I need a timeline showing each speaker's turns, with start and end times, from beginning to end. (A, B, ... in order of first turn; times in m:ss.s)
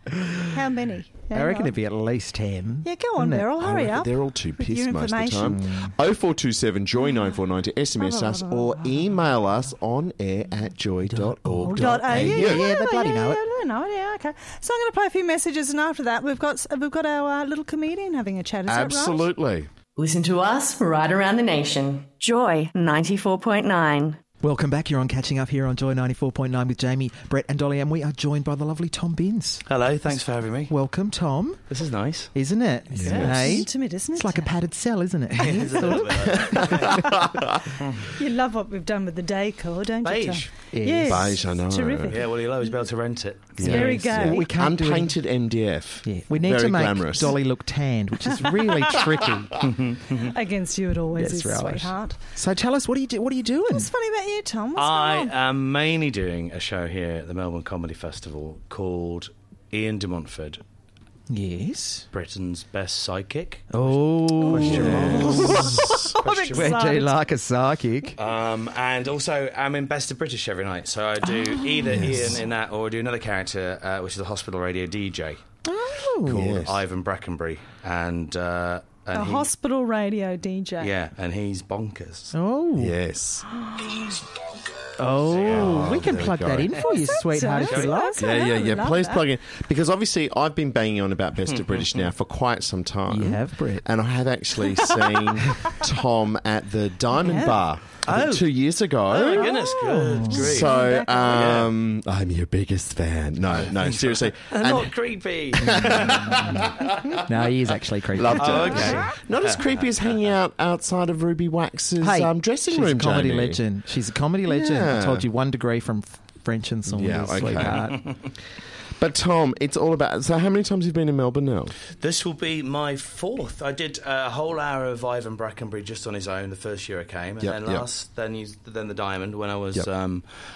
0:00.4-0:01.7 A
0:01.3-0:03.5 B
0:02.8-0:05.6 A
0:03.6-0:12.7 C
0:05.4-0:05.9 B
0:08.0-0:08.9 A
0:11.0-0:13.4 B
0:11.6-0:19.3 A
0:18.7-0:19.7 C
0:20.0-0:24.2 D
0:24.4-0:31.6 B
0:29.7-0:30.7 E
0:31.7-0:32.3 E
0:32.3-0:37.2 B
0:32.9-0:33.6 C
0:33.0-0:34.5 A
0:35.4-0:37.0 E
0:36.4-0:37.8 C
0:38.1-0:42.7 A
0:40.0-0:40.5 E
0:40.7-0:41.4 B
0:41.1-0:42.2 C
0:42.1-0:43.9 E
0:43.6-0:47.4 C
0:43.6-0:44.5 A
0:43.6-0:45.3 B
0:46.0-0:49.6 B
0:49.6-0:50.3 E
0:50.2-0:52.2 A
0:51.2-0:53.9 B
0:53.7-0:55.3 A
0:54.8-1:00.6 E
1:01.3-1:02.0 B
1:02.1-1:06.8 E
1:03.7-1:08.2 B
1:04.4-1:07.1 A
1:04.5-1:05.9 C
1:08.2-1:15.4 E
1:11.6-1:12.3 B
1:11.9-1:12.3 C
1:15.6-1:16.5 B
1:16.2-1:19.5 E
1:16.3-1:16.8 C
1:19.1-1:20.9 A
1:20.8-1:22.3 E
1:22.3-1:23.0 B
1:22.8-1:23.5 C
1:25.0-1:28.3 B
1:25.3-1:26.1 E
1:25.4-1:26.8 C
1:26.8-1:29.2 A
1:27.6-1:27.9 E
1:28.2-1:39.7 C
1:31.4-1:32.1 E
1:33.1-1:33.8 B
1:37.2-1:37.6 A
1:38.0-1:38.5 E
1:39.1-1:40.7 E
1:39.4-1:39.6 A
1:39.8-1:40.5 B
1:40.3-1:44.9 C
1:40.3-1:41.5 A
1:41.2-1:41.7 E
1:43.5-1:46.9 E
1:45.5-1:47.2 C
1:45.7-1:49.0 B
1:48.1-1:53.6 C
1:48.3-1:50.2 E
1:52.0-1:58.0 B
1:54.5-1:55.2 C
1:56.9-1:58.1 C
1:57.5-1:58.2 E
1:59.0-2:01.7 C
2:02.0-2:10.2 E
2:07.4-2:07.8 C